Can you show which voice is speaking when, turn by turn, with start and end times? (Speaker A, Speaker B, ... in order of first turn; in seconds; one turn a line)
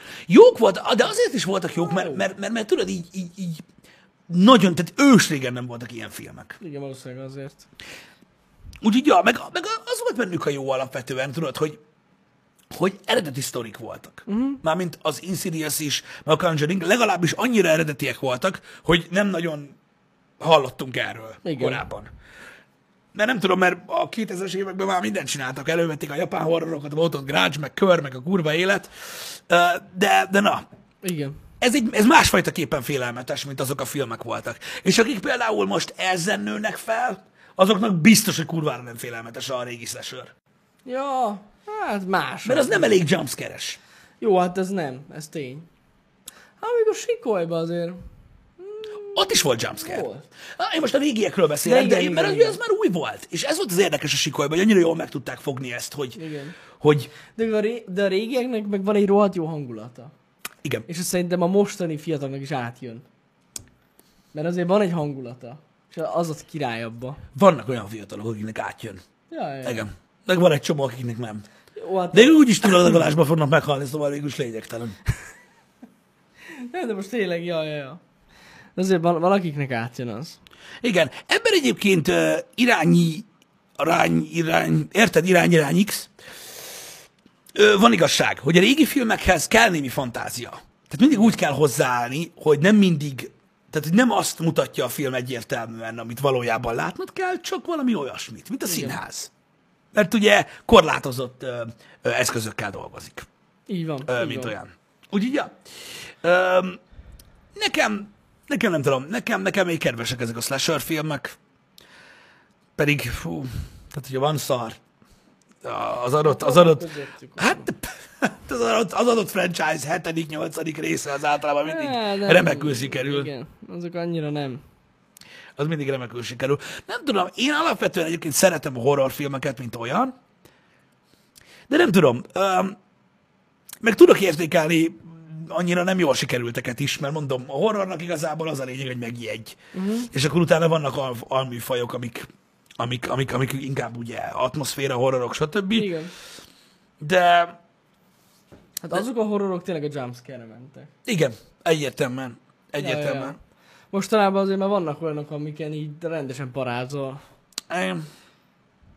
Speaker A: 0.3-3.6
Speaker B: 1.8-2.2
Speaker A: 4.3-6.6
Speaker B: 6.6-7.6
Speaker A: 8.8-11.8
Speaker A: 12.7-19.8
Speaker B: 14.3-14.6
Speaker A: 20.4-22.1
Speaker B: 21.4-21.8
Speaker A: 23.1-30.6
Speaker B: 31.0-31.3
Speaker A: 31.6-40.3
Speaker B: 40.9-43.0
Speaker A: 42.4-43.8
Speaker B: 44.2-45.7
Speaker B: 46.6-48.0
Speaker B: 48.6-50.2
Speaker A: 49.1-56.2
Speaker B: 51.6-52.6
Speaker B: 56.1-56.5
Speaker A: 56.8-57.1
Speaker B: 57.3-60.1
Speaker B: 60.9-63.0
Speaker B: 64.3-67.2
Speaker A: 67.3-69.0
Speaker B: 69.3-69.8
Speaker A: 69.6-71.5
Speaker B: 71.8-72.8
Speaker A: 72.1-75.0
Speaker B: 76.5-78.0
Speaker B: 78.8-80.4
Speaker A: 80.8-83.3
Speaker A: 83.8-86.1
Speaker A: 87.5-99.3
Speaker B: 98.7-99.0
Speaker A: 99.9-103.3
Speaker B: 103.7-104.5
Speaker A: 104.0-105.5
Speaker A: 106.2-106.8
Speaker A: 107.5-111.4
Speaker A: 112.8-114.8
Speaker A: 115.6-123.3
Speaker B: 116.2-117.7
Speaker B: 121.6-124.6
Speaker A: 125.6-130.1
Speaker A: 131.7-132.8
Speaker A: 133.8-139.6
Speaker B: 139.7-140.1
Speaker A: 140.1-145.9
Speaker B: 145.7-146.1
Speaker A: 147.0-147.6
Speaker B: 148.8-150.9
Speaker A: 151.0-153.4
Speaker B: 152.8-153.3
Speaker B: 153.9-157.2
Speaker A: 157.7-158.1